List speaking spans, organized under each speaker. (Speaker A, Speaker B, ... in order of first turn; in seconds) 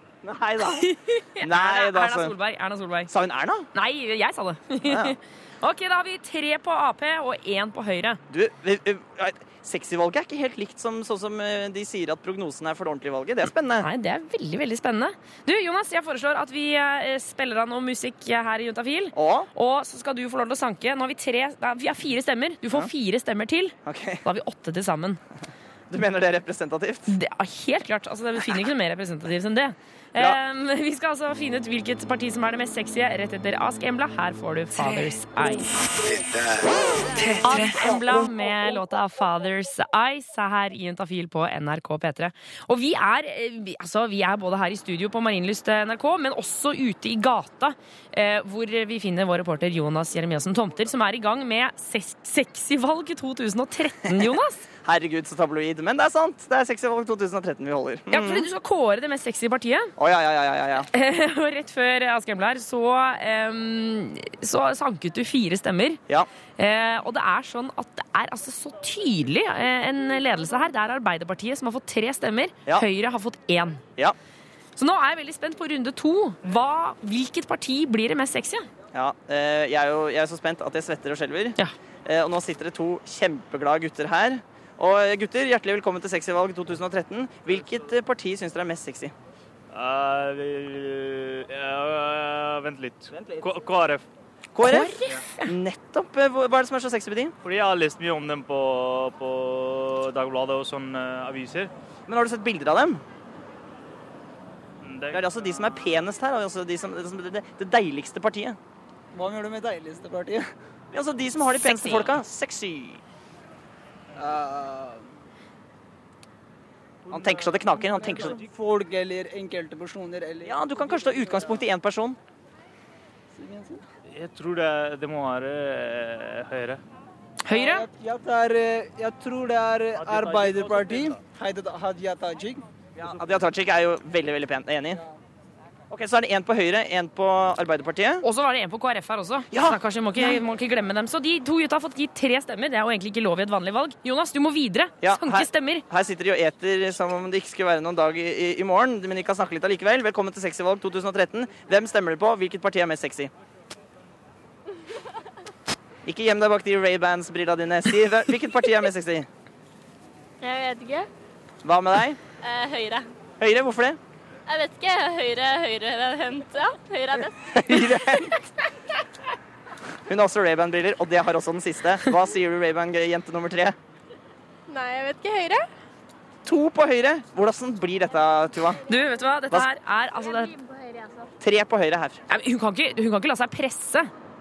Speaker A: 0.2-0.9, 1.4-2.4, 3.1-3.7, 4.9-5.2, 8.3-13.9, 19.1-19.5, 23.9-24.2, 25.9-27.1, 54.8-58.5, 60.0-60.9, 78.9-89.1, 94.5-97.3, 102.1-103.0, 105.1-108.6, 110.9-113.0, 117.1-118.4, 120.5-122.2, 133.0-135.0, 135.9-138.2, 139.5-140.4, 145.0-153.3, 156.1-159.3, 161.6-162.2, 163.4-164.0, 167.6-168.4, 170.1-173.8, 176.4-178.8, 181.4-182.2
Speaker B: 0.6-3.1, 3.7-8.2, 13.8-25.2, 27.1-35.7, 37.4-54.7, 58.1-59.9, 60.9-66.0, 66.6-73.8, 74.8-78.7, 94.6-95.5, 111.6-112.1, 127.5-127.9, 138.2-145.8, 178.9-180.6, 182.3-184.1
Speaker C: 89.7-94.0, 97.4-101.7, 104.8-105.8, 118.1-118.5, 124.1-126.8, 129.9-131.2
Speaker D: 93.2-93.5, 109.1-110.5, 114.2-115.0, 117.1-120.6, 123.3-123.8, 127.5-132.7
Speaker E: 160.4-161.1, 162.4-163.1, 164.5-168.3, 174.7-175.7, 180.6-181.3